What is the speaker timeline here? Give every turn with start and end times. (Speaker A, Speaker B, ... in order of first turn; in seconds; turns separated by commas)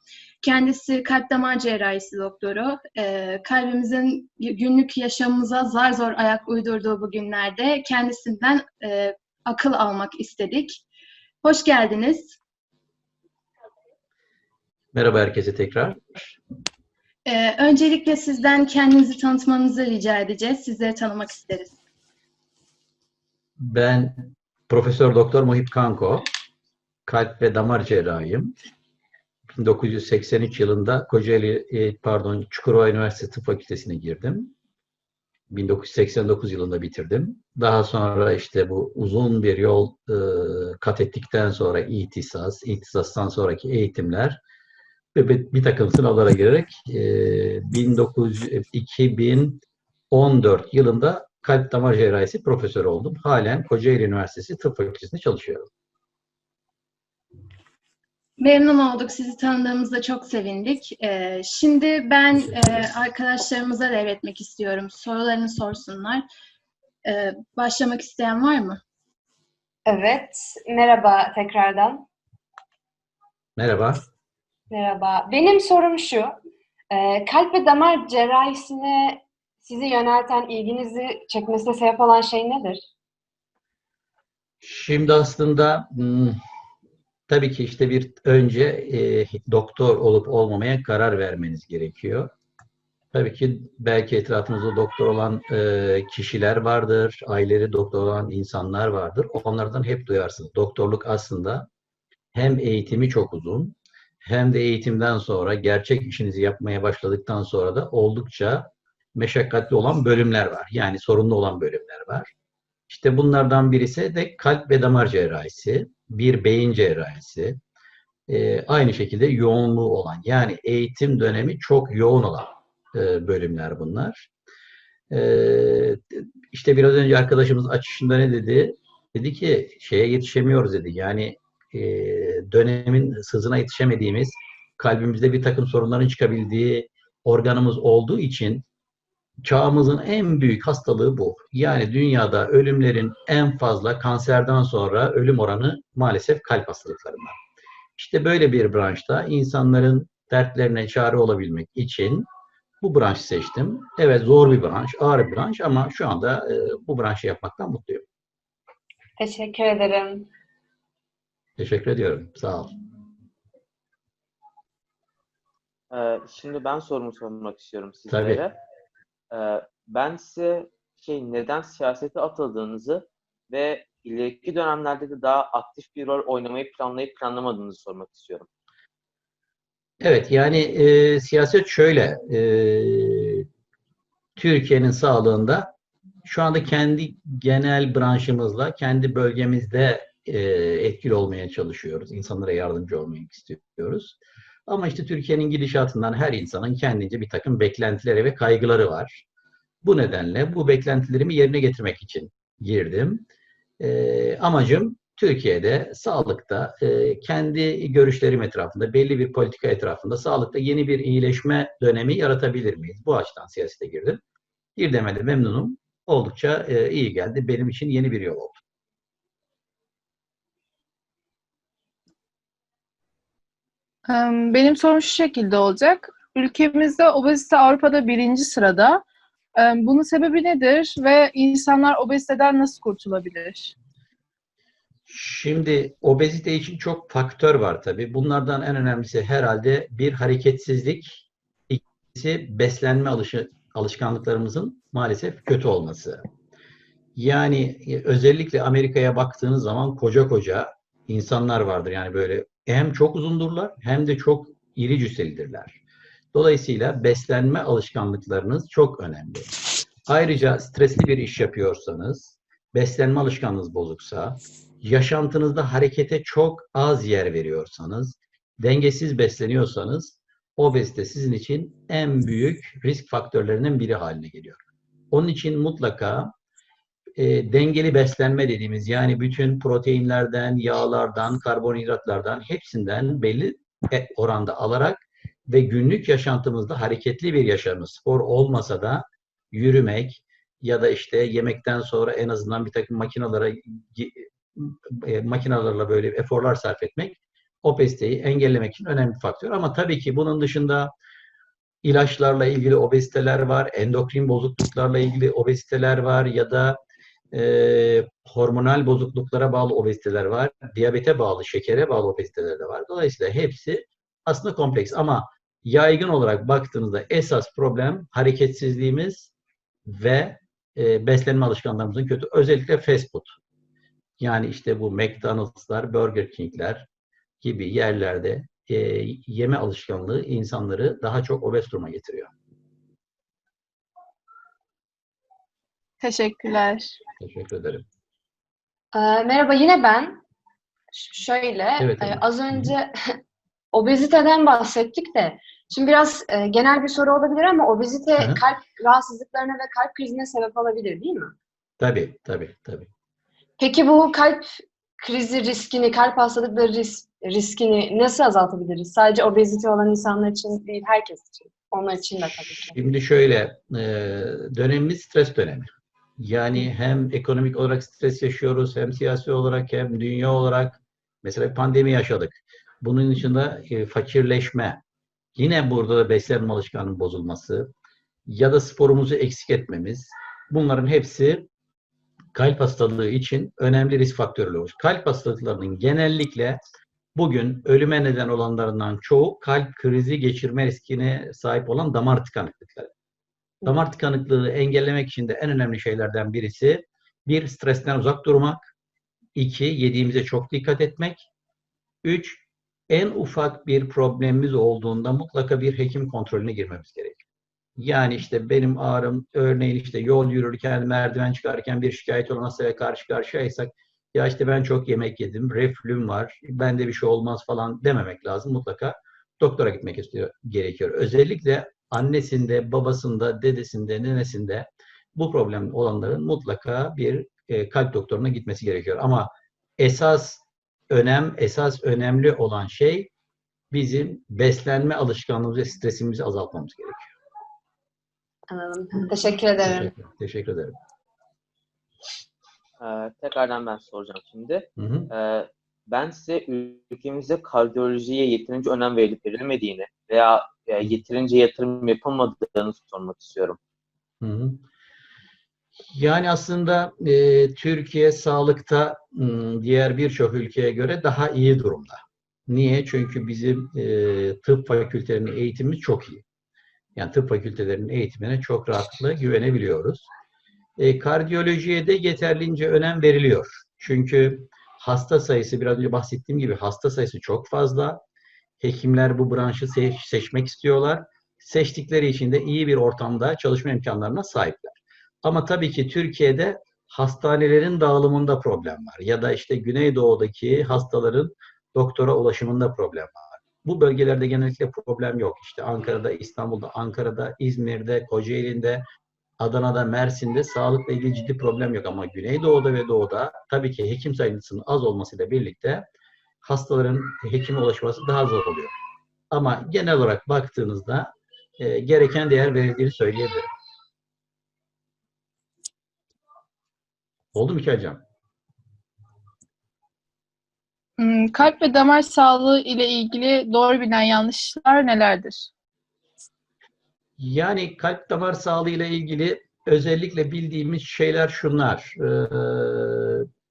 Speaker A: 0.4-10.8, Speaker A: 11.4-12.4, Speaker B: 14.9-16.4, Speaker A: 17.2-21.8, Speaker B: 23.6-26.3, Speaker B: 27.1-28.5, Speaker B: 29.6-34.5, Speaker B: 35.5-44.4, Speaker B: 45.1-55.7, Speaker A: 58.4-66.2, Speaker B: 62.3-62.9, Speaker A: 67.0-68.8, Speaker C: 69.8-72.0, Speaker B: 73.5-74.0, Speaker C: 74.7-76.3, Speaker C: 76.9-82.8, Speaker B: 84.6-86.3, Speaker B: 87.3-92.3, Speaker B: 93.1-101.7, Speaker B: 102.3-112.3, Speaker B: 112.9-117.6, Speaker B: 118.3-124.3, Speaker B: 125.1-138.6, Speaker B: 139.4-147.4, Speaker B: 148.0-152.3, Speaker B: 152.8-158.0, Speaker C: 159.2-160.3, Speaker B: 161.6-162.7, Speaker D: 165.9-168.5, Speaker B: 168.1-168.4, Speaker D: 169.3-178.5, Speaker B: 180.0-183.4, Speaker B: 184.4-185.7, Speaker B: 186.2-199.2, Speaker B: 199.8-203.2, Speaker B: 203.8-214.2, Speaker B: 214.8-218.6, Speaker E: 224.1-229.0, Speaker E: 229.6-233.7, Speaker B: 235.1-246.2, Speaker B: 247.2-255.8, Speaker B: 256.3-259.5, Speaker B: 260.1-276.3, Speaker B: 277.2-300.9, Speaker B: 301.8-306.8, Speaker B: 307.3-319.3, Speaker B: 319.9-323.3, Speaker B: 324.2-326.9, Speaker B: 327.4-332.3, Speaker E: 336.0-336.9, Speaker B: 337.2-337.8, Speaker C: 338.9-340.2, Speaker C: 340.9-343.2, Speaker B: 341.8-342.7, Speaker C: 343.7-351.3, Speaker B: 351.8-352.9, Speaker C: 353.6-362.8, Speaker B: 362.2-374.8, Speaker B: 375.4-377.7, Speaker B: 378.2-381.5, Speaker B: 382.3-386.6, Speaker B: 387.1-392.9, Speaker B: 393.6-398.7, Speaker B: 399.4-401.3, Speaker B: 402.0-407.2, Speaker B: 407.8-433.1, Speaker B: 433.7-437.1, Speaker C: 438.5-439.9, Speaker B: 439.6-440.8, Speaker D: 442.8-453.6, Speaker B: 444.8-445.1, Speaker B: 454.2-454.6, Speaker B: 455.9-466.2, Speaker B: 466.9-470.1, Speaker B: 470.8-478.0, Speaker B: 478.6-498.8, Speaker B: 499.4-505.9, Speaker B: 506.4-508.7, Speaker B: 509.3-513.5, Speaker B: 517.3-518.0, Speaker E: 521.0-525.5, Speaker B: 527.2-533.3